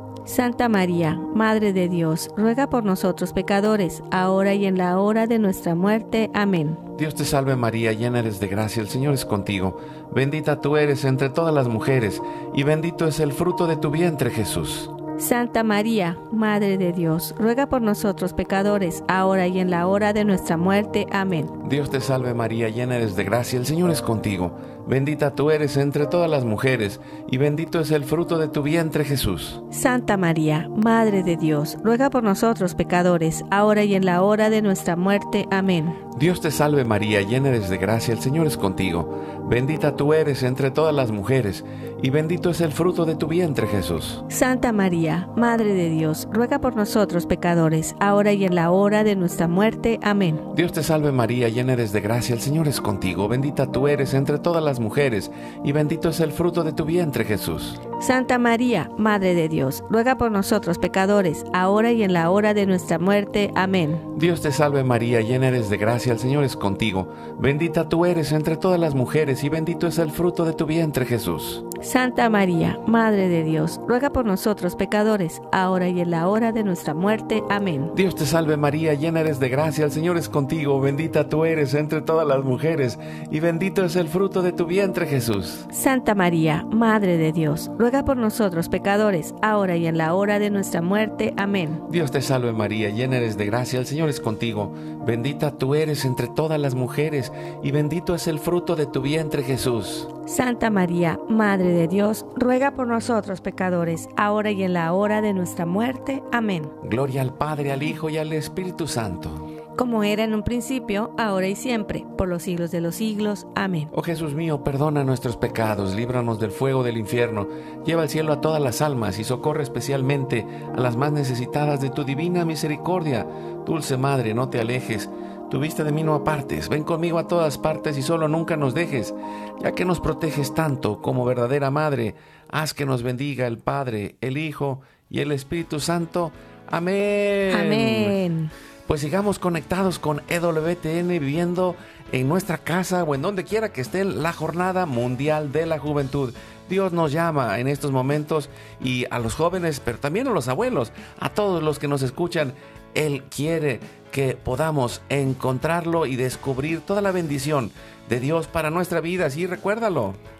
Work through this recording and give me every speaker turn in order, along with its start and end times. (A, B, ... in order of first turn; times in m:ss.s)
0:00.2-0:06.8 A
0:07.0-0:14.9 B
0:15.2-0:21.5 A
0:21.6-0:29.6 B
0:29.7-0:36.0 A
0:36.1-0:44.2 B
0:44.3-0:50.4 A
0:50.5-0:57.8 B
0:58.0-1:04.0 A
1:04.1-1:11.6 B
1:11.8-1:17.9 A
1:17.9-1:25.7 B
1:25.7-1:31.8 A
1:31.9-1:40.1 B
1:40.2-1:46.7 A
1:46.8-1:49.4 B
1:49.8-1:53.9 A
1:53.9-2:18.2 B
2:17.5-2:18.5 A
2:18.8-2:40.2 B